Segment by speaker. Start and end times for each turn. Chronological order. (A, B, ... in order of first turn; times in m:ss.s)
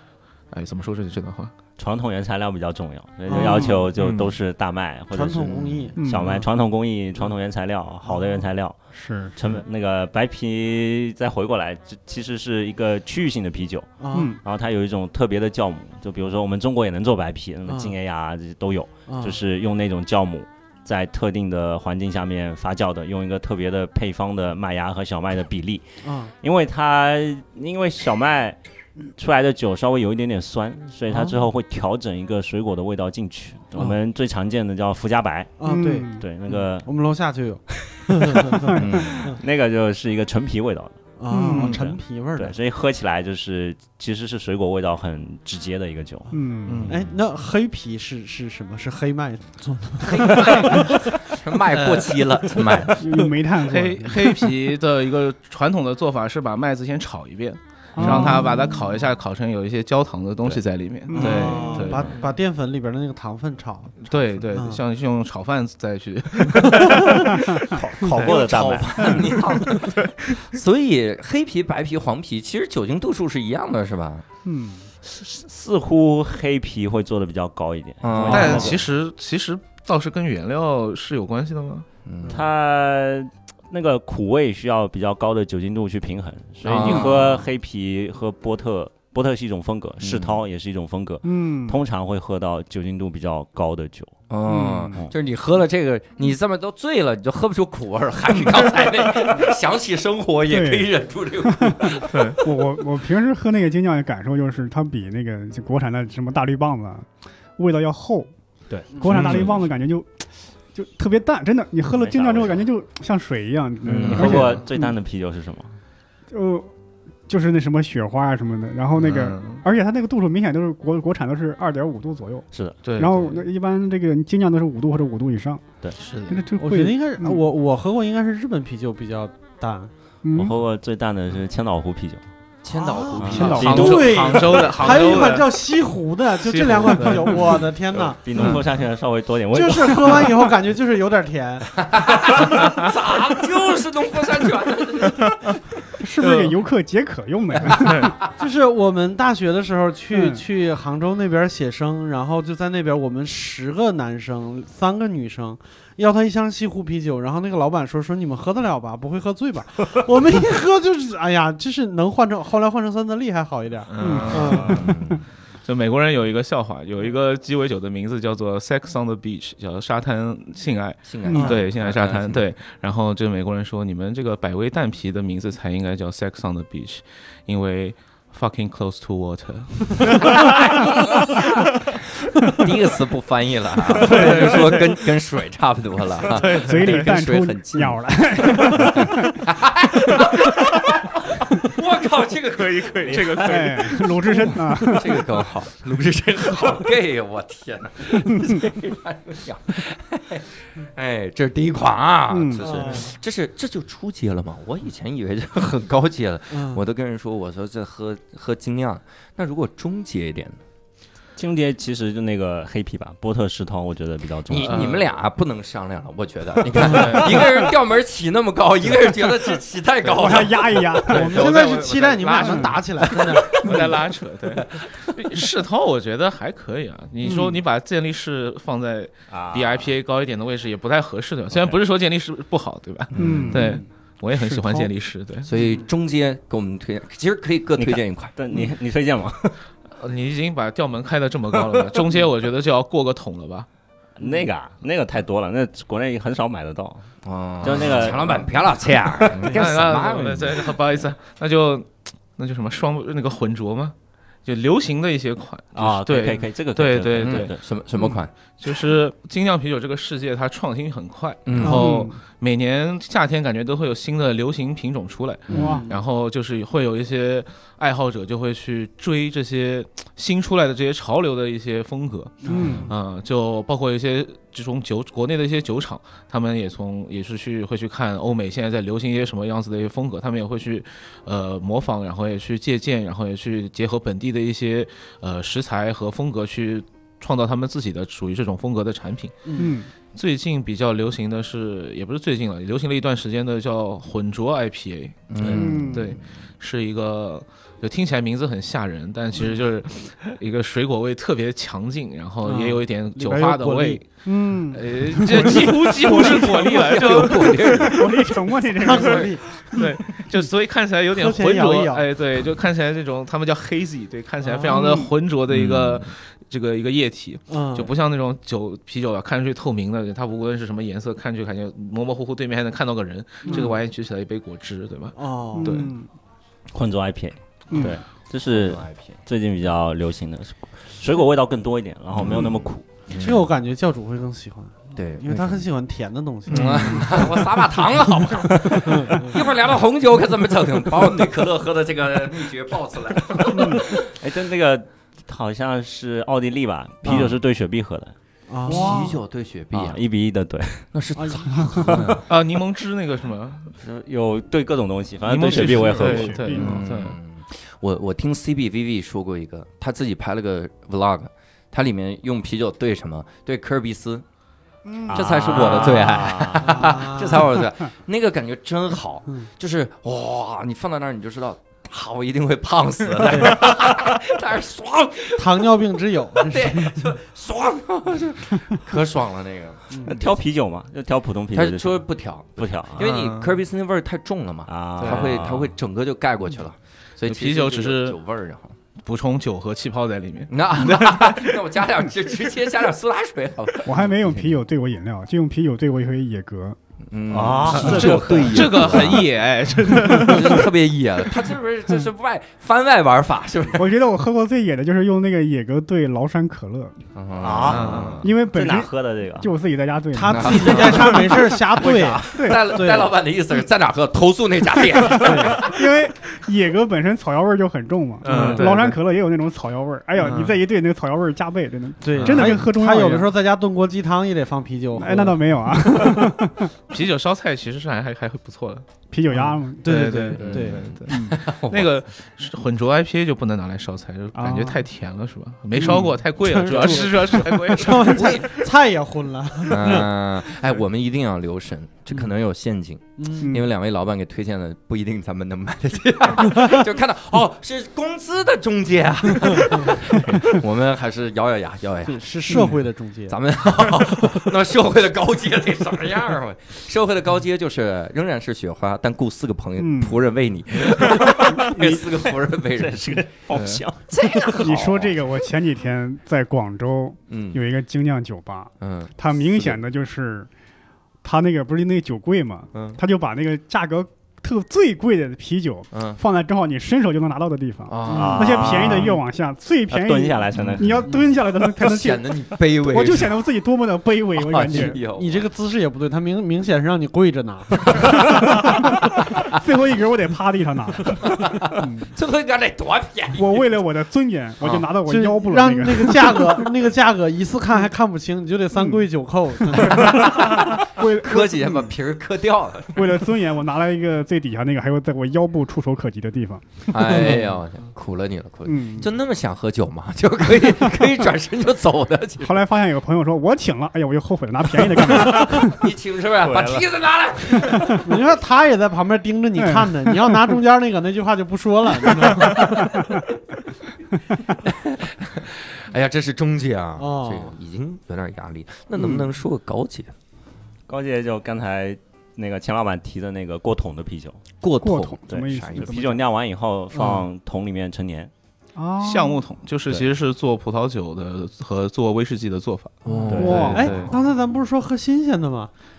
0:00.5-0:01.5 A
0:01.8-0:08.8 B
0:03.3-0:03.9 C
0:03.4-0:03.8 D
0:04.0-0:04.4 A
0:05.1-0:06.4 C
0:06.0-0:06.4 D
0:08.1-0:08.4 C
0:08.9-0:09.3 D
0:09.4-0:35.6 B
0:14.0-0:14.4 C
0:14.1-0:14.4 D
0:17.7-0:17.9 C
0:19.1-0:19.4 C
0:26.0-0:26.3 C
0:31.1-0:31.4 C
0:35.6-0:39.4 C
0:35.7-0:36.2 D
0:36.2-0:36.9 B
0:37.7-0:41.0 B
0:38.6-0:39.0 D
0:38.8-0:39.3 E
0:41.2-0:42.6 C
0:41.3-0:41.7 D
0:41.5-0:46.3 B
0:46.3-0:51.1 C
0:46.3-0:46.9 D
0:46.6-0:47.0 A
0:50.2-0:53.0 E
0:50.2-0:50.7 A
0:51.7-0:53.0 A
0:53.0-0:54.5 D
0:53.6-1:02.2 A
0:58.0-0:58.5 D
0:58.0-0:58.3 C
1:01.1-1:01.7 D
1:01.1-1:04.8 C
1:04.0-1:08.4 A
1:06.6-1:07.3 C
1:07.6-1:09.4 B
1:08.2-1:14.2 E
1:09.6-1:10.4 A
1:14.4-1:14.9 D
1:15.0-1:18.8 B
1:18.0-1:18.8 E
1:18.3-1:21.9 A
1:22.1-1:22.4 E
1:22.3-1:34.1 B
1:26.6-1:27.5 E
1:30.0-1:30.4 E
1:31.2-1:31.8 D
1:34.3-1:42.1 E
1:34.5-1:35.0 D
1:40.5-1:40.9 D
1:41.4-1:48.3 D
1:42.1-1:42.4 A
1:48.7-1:49.5 B
1:48.9-1:55.0 D
1:49.1-1:49.6 A
1:51.9-1:52.7 B
1:53.9-1:55.8 B
1:53.9-1:54.4 E
1:54.0-1:54.6 A
1:56.3-1:56.7 D
1:57.3-2:05.8 D
1:59.0-1:59.6 A
2:02.5-2:02.8 B
2:02.8-2:03.4 A
2:06.0-2:06.5 A
2:06.3-2:07.4 D
2:06.6-2:09.9 C
2:10.2-2:10.5 D
2:10.3-2:12.2 B
2:12.6-2:13.9 E
2:12.7-2:18.6 C
2:13.2-2:14.2 B
2:13.3-2:14.3 D
2:13.4-2:15.6 A
2:16.4-2:18.6 A
2:18.2-2:20.4 B
2:19.5-2:21.8 C
2:21.8-2:25.4 E
2:26.0-2:28.1 D
2:26.2-2:26.6 A
2:27.7-2:28.2 A
2:28.4-2:44.9 C
2:30.1-2:30.4 D
2:43.9-2:44.9 A
2:44.0-2:45.0 D
2:44.6-2:45.2 E
2:45.6-3:00.9 A
2:51.0-2:52.4 E
2:51.2-2:51.5 D
3:00.3-3:01.7 E
3:02.6-3:13.3 E
3:04.0-3:05.0 A
3:06.2-3:07.2 A
3:06.6-3:09.4 D
3:12.6-3:14.6 A
3:13.1-3:13.4 B
3:13.4-3:15.3 D
3:14.8-3:30.6 E
3:22.3-3:22.7 D
3:22.6-3:23.1 C
3:26.5-3:26.8 C
3:31.4-3:35.0 B
3:34.5-3:41.0 E
3:34.7-3:35.0 A
3:36.8-3:37.6 A
3:40.2-3:41.6 D
3:41.1-3:55.5 A
3:41.1-3:43.8 C
3:42.4-3:42.8 D
3:43.1-3:43.9 E
3:44.6-3:45.2 E
3:47.2-3:47.6 D
3:49.3-3:49.9 B
3:53.1-3:53.6 E
3:53.2-3:53.8 D
3:54.3-3:54.9 D
3:55.4-3:58.3 E
3:57.8-3:59.6 B
4:00.0-4:03.7 A
4:04.2-4:07.1 B
4:07.2-4:10.7 E
4:07.6-4:08.5 B
4:09.3-4:17.6 A
4:15.8-4:17.6 B
4:17.2-4:18.3 E
4:18.6-4:49.4 A
4:21.5-4:21.9 E
4:21.6-4:22.0 C
4:21.6-4:22.2 D
4:25.5-4:25.9 D
4:25.5-4:26.0 C
4:32.4-4:32.9 C
4:32.5-4:32.9 D
4:49.5-4:49.8 C
4:49.6-4:49.9 D
4:50.1-5:04.1 A
4:55.3-4:56.1 E
4:55.5-4:56.2 D
5:02.4-5:04.0 C
5:04.2-5:06.8 D
5:04.7-5:08.1 A
5:05.1-5:06.2 C
5:06.0-5:08.1 E
5:07.4-5:09.8 D
5:08.8-5:10.2 C
5:08.9-5:25.9 A
5:11.1-5:12.1 C
5:14.4-5:14.9 C
5:14.7-5:15.1 D
5:15.5-5:16.1 E
5:17.5-5:17.9 C
5:23.4-5:23.7 C
5:25.2-5:25.9 C
5:25.6-5:26.1 D
5:26.7-5:32.8 B
5:27.7-5:28.0 D
5:28.5-5:29.2 E
5:33.1-5:33.5 E
5:33.1-5:37.5 C
5:35.0-5:35.6 E
5:36.5-5:37.3 A
5:36.5-5:44.0 E
5:38.7-5:39.4 C
5:43.5-5:43.8 D
5:43.5-5:48.1 B
5:47.0-5:47.3 C
5:48.5-5:49.1 C
5:48.7-5:49.2 D
5:48.7-5:50.0 E
5:49.7-5:50.9 B
5:50.9-5:52.2 E
5:51.2-5:52.0 C
5:52.3-5:53.8 A
5:53.8-5:56.4 B
5:55.2-5:57.2 A
5:55.5-5:56.8 D
5:56.5-6:04.2 E
6:04.8-6:05.3 D
6:05.1-6:07.0 B
6:05.1-6:15.8 E
6:06.6-6:07.6 C
6:13.3-6:13.7 C
6:15.4-6:17.1 C
6:16.4-6:20.1 E
6:19.9-6:20.2 C
6:20.0-6:22.0 B
6:21.5-6:28.8 E
6:22.6-6:23.0 B
6:23.0-6:23.6 A
6:24.7-6:25.7 B
6:25.0-6:25.4 A
6:27.2-6:28.2 A
6:29.0-6:31.6 A
6:30.5-6:34.0 E
6:33.8-6:36.8 D
6:37.1-6:39.3 E
6:37.3-6:39.0 B
6:37.7-6:40.7 A
6:40.1-6:43.9 E
6:43.7-6:47.0 D
6:47.2-6:48.2 E
6:47.4-6:49.5 B
6:47.7-6:48.3 A
6:48.2-6:51.6 D
6:50.1-6:53.1 C
6:50.3-6:55.8 E
6:52.3-6:52.8 D
6:55.1-6:55.6 C
6:55.5-7:03.3 D
6:58.2-6:59.0 A
6:58.3-6:58.7 C
7:00.2-7:00.5 A
7:02.0-7:06.3 C
7:02.2-7:02.6 A
7:05.0-7:06.7 D
7:06.9-7:08.9 A
7:09.1-7:10.1 D
7:09.8-7:10.9 C
7:09.8-7:18.5 A
7:10.4-7:11.9 E
7:11.1-7:11.4 D
7:14.3-7:14.8 D
7:15.8-7:20.1 C
7:17.8-7:18.6 E
7:19.7-7:32.7 E
7:23.2-7:23.5 C
7:23.4-7:23.7 D
7:32.0-7:33.4 C
7:32.5-7:32.8 D
7:33.3-7:43.2 E
7:39.8-7:40.2 D
7:41.2-7:42.0 B
7:42.8-7:44.1 B
7:43.5-7:43.8 A
7:44.1-7:45.2 E
7:44.6-7:50.5 D
7:47.3-7:47.6 E
7:48.8-7:49.8 E
7:51.2-8:05.0 D
7:52.7-7:53.0 E
7:55.9-7:56.2 E
7:57.9-7:59.1 E
7:58.1-7:58.6 C
7:58.1-7:59.2 B
7:59.9-8:01.0 B
8:00.6-8:00.8 A
8:01.0-8:01.3 C
8:01.8-8:03.4 E
8:04.4-8:05.5 E
8:04.7-8:08.4 C
8:08.0-8:09.0 D
8:09.5-8:12.1 D
8:11.4-8:13.7 E
8:13.4-8:16.7 D
8:14.6-8:14.9 E
8:15.1-8:20.6 C
8:18.7-8:19.1 D
8:19.7-8:21.9 D
8:20.0-8:23.1 E
8:23.0-8:27.4 D
8:26.9-8:32.6 E
8:28.6-8:29.1 D
8:32.4-8:35.9 D
8:35.4-8:38.2 E
8:36.4-8:36.8 B
8:38.0-8:43.1 C
8:39.6-8:40.6 D
8:42.2-8:43.1 D
8:44.7-8:50.1 E
8:47.0-8:47.6 C
8:50.9-8:54.4 B
8:54.6-8:56.0 E
8:54.8-8:56.2 D
8:55.3-8:58.3 B
8:56.9-8:57.2 C
8:58.8-8:59.4 D
8:59.0-9:04.1 A
9:03.1-9:03.7 E
9:03.2-9:05.7 C
9:03.3-9:03.9 B
9:03.3-9:03.9 D